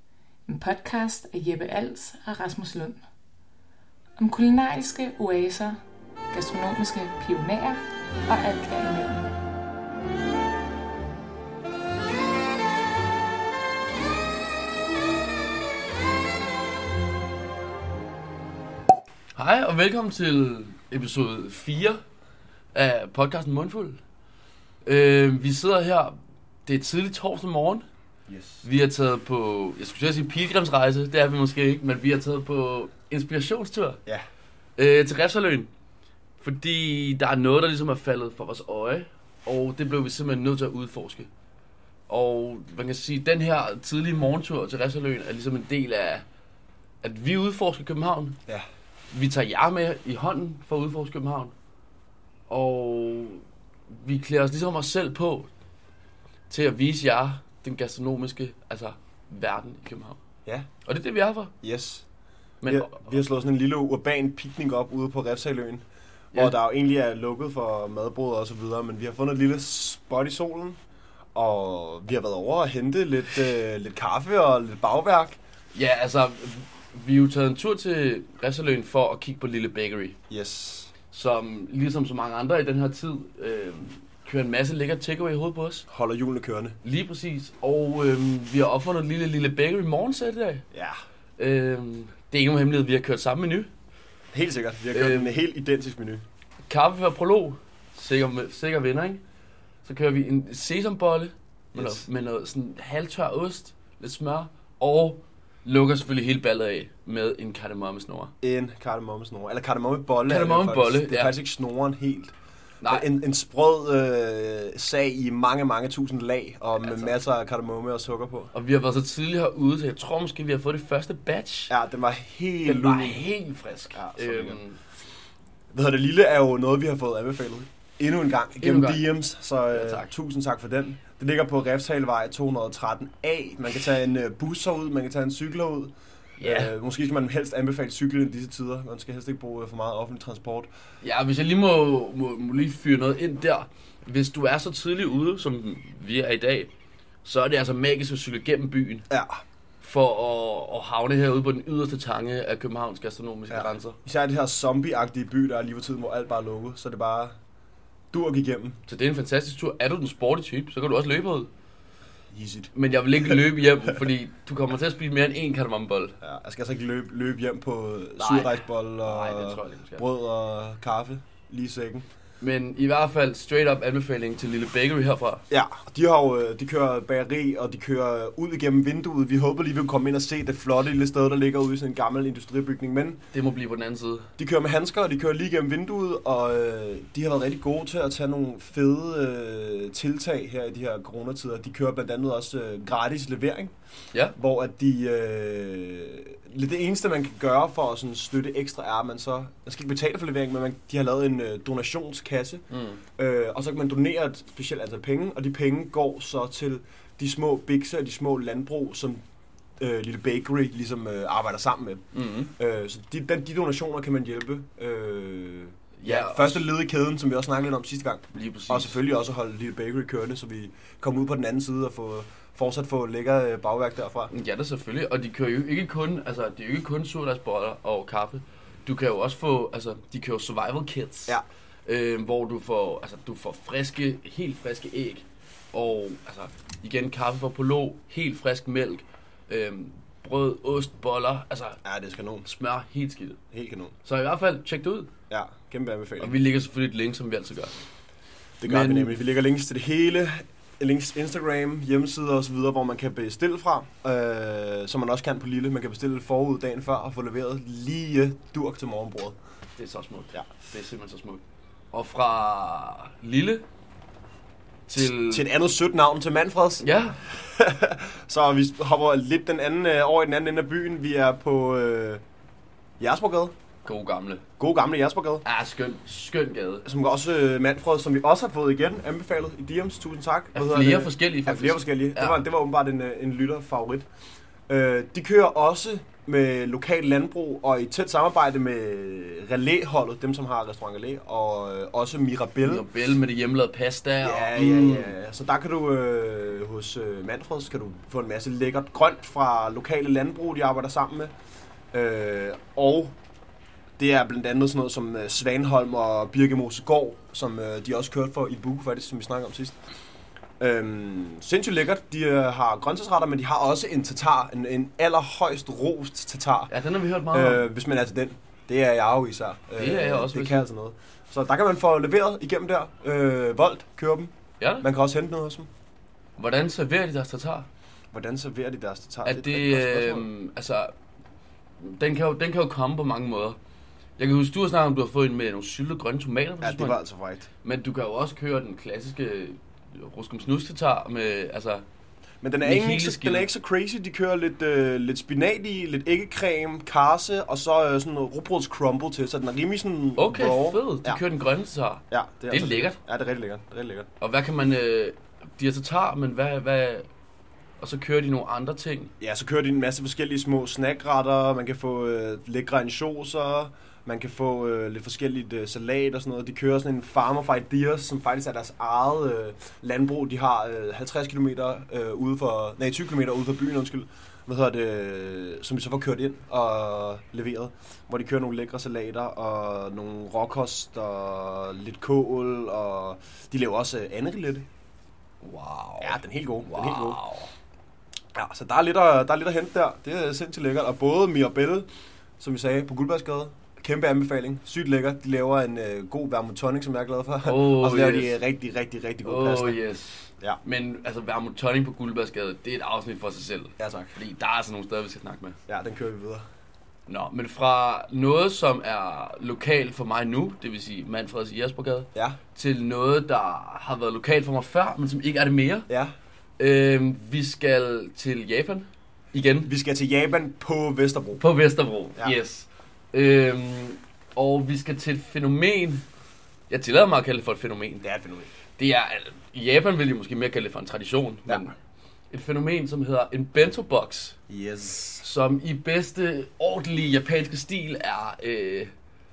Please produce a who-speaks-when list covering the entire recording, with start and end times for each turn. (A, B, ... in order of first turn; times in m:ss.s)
0:00.4-0:03.0 A
0:04.2-0:05.8 A
0:06.3-0:09.3 A
0:19.3-0:22.0 B
0:22.7-0:24.0 B
0:24.8-0:27.8 B
0:28.3-0:28.7 C
0:28.6-0:34.0 B
0:34.8-0:35.7 B
0:36.4-0:41.3 B
0:42.1-0:46.2 B
0:47.0-0:48.4 B
0:49.1-0:51.5 B
0:52.5-0:55.5 B
0:56.5-1:00.2 B
1:00.8-1:01.5 B
1:01.6-1:02.0 C
1:02.6-1:03.2 B
1:02.6-1:10.8 C
1:11.3-1:15.4 C
1:15.7-1:20.2 B
1:20.3-1:20.9 C
1:21.1-1:25.8 B
1:25.9-1:26.8 C
1:26.8-1:30.6 B
1:31.4-1:33.7 B
1:34.3-1:36.2 C
1:34.9-1:35.5 B
1:36.7-1:39.2 B
1:39.8-1:48.3 B
1:41.7-1:42.1 C
1:48.4-1:58.5 C
1:50.3-1:51.4 B
1:52.8-1:53.1 B
1:56.8-1:57.2 B
1:58.5-2:01.7 B
2:01.7-2:03.3 C
2:02.6-2:04.8 B
2:03.8-2:04.6 C
2:05.7-2:20.7 C
2:08.6-2:09.1 B
2:09.7-2:10.1 B
2:16.4-2:16.7 B
2:21.0-2:26.7 B
2:27.2-2:29.0 B
2:29.1-2:29.4 C
2:29.8-2:34.0 B
2:33.5-2:37.3 C
2:38.1-2:38.8 C
2:38.9-2:41.5 B
2:42.3-2:43.9 C
2:42.7-2:46.2 B
2:46.2-2:52.0 C
2:48.2-2:50.0 B
2:52.4-2:55.4 B
2:55.5-3:03.2 C
3:03.3-3:04.3 B
3:04.4-3:13.7 C
3:14.4-3:22.6 C
3:22.7-3:23.0 B
3:23.2-3:29.2 C
3:29.8-3:32.0 C
3:32.1-3:32.5 B
3:32.6-3:44.3 C
3:36.0-3:36.7 B
3:38.3-3:39.0 B
3:44.3-4:01.8 B
4:01.8-4:02.5 C
4:02.4-4:03.4 B
4:03.5-4:03.9 C
4:04.0-4:05.1 B
4:05.3-4:06.4 C
4:06.2-4:07.7 B
4:08.6-4:19.4 C
4:08.6-4:09.2 B
4:19.8-4:23.6 B
4:24.9-4:25.5 B
4:24.9-4:32.2 C
4:26.8-4:27.2 B
4:33.0-4:33.5 C
4:33.8-4:34.4 B
4:34.6-4:35.4 C
4:35.4-4:36.9 B
4:36.8-4:44.0 C
4:40.5-4:42.4 B
4:44.7-4:52.9 C
4:52.6-4:55.2 B
4:54.2-5:01.3 C
5:01.9-5:03.1 C
5:04.0-5:09.8 C
5:10.6-5:16.7 C
5:16.7-5:17.7 B
5:17.3-5:25.7 C
5:19.8-5:20.7 B
5:24.6-5:24.9 B
5:26.4-5:27.7 B
5:28.1-5:30.3 C
5:29.2-5:30.9 B
5:31.8-5:33.6 B
5:34.2-5:37.0 B
5:36.6-5:37.5 C
5:37.6-5:41.8 B
5:42.4-5:51.2 C
5:42.6-5:43.5 B
5:50.2-5:53.0 B
5:52.1-5:54.1 C
5:54.2-5:57.1 B
5:57.8-5:59.1 B
5:59.2-6:24.6 C
6:25.4-6:27.5 B
6:26.0-6:27.2 C
6:28.3-6:31.9 C
6:32.4-6:39.8 C
6:37.4-6:38.4 B
6:39.2-6:45.6 B
6:43.8-6:44.2 C
6:45.7-6:46.4 C
6:47.1-6:55.9 B
6:56.6-6:59.7 B
6:59.6-7:01.4 C
7:01.4-7:06.0 B
7:06.7-7:08.0 B
7:08.0-7:08.5 C
7:08.8-7:11.8 B
7:12.3-7:14.4 B
7:14.5-7:15.3 C
7:15.2-7:18.9 B